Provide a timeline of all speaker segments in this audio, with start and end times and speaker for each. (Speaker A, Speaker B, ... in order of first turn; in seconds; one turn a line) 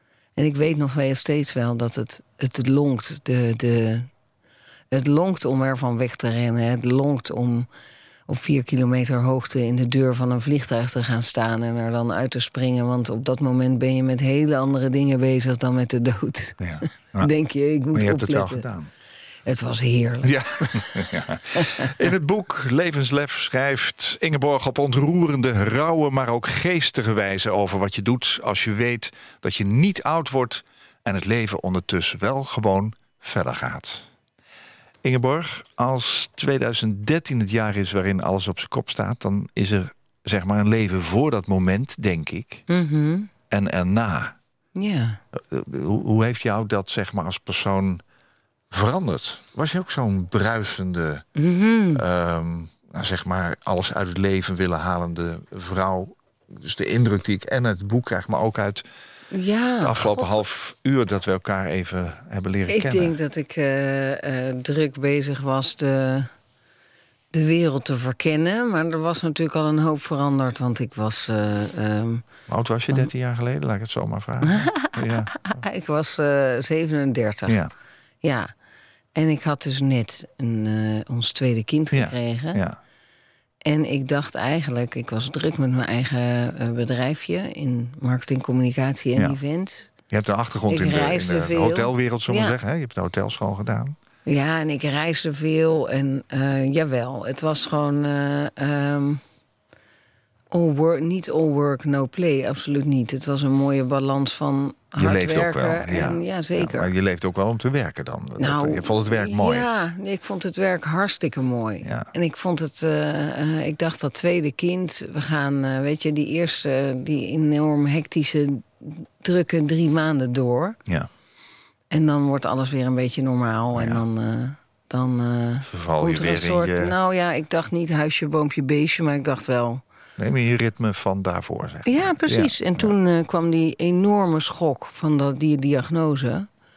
Speaker A: 0.3-4.1
Speaker A: 4.9-7.7
Speaker A: 8.3-18.6
Speaker B: 16.6-17.3
Speaker B: 17.9-18.9
Speaker A: 19.4-21.9
Speaker B: 20.2-34.1
Speaker B: 35.0-42.6
Speaker A: 42.7-43.3
Speaker B: 43.5-44.4
Speaker A: 44.8-45.2
Speaker B: 45.3-48.0
Speaker B: 48.7-51.2
Speaker A: 51.4-52.0
Speaker B: 51.9-58.9
Speaker A: 59.3-60.4
Speaker B: 59.8-63.1
Speaker A: 62.7-66.3
Speaker A: 67.3-72.3
Speaker B: 72.5-75.5
Speaker A: 74.4-77.6
Speaker B: 77.5-77.7
Speaker A: 78.2-78.5
Speaker A: 79.1-82.6
Speaker B: 81.9-82.8
Speaker A: 83.6-89.9
Speaker B: 90.1-94.0
Speaker A: 90.7-92.6
Speaker A: 94.2-99.2
Speaker A: 100.5-106.9
Speaker B: 105.0-109.7
Speaker A: 108.4-120.8
Speaker B: 111.8-112.1
Speaker A: 121.9-129.8
Speaker B: 123.7-124.0
Speaker B: 125.7-126.9
Speaker B: 130.2-132.9
Speaker A: 131.8-136.5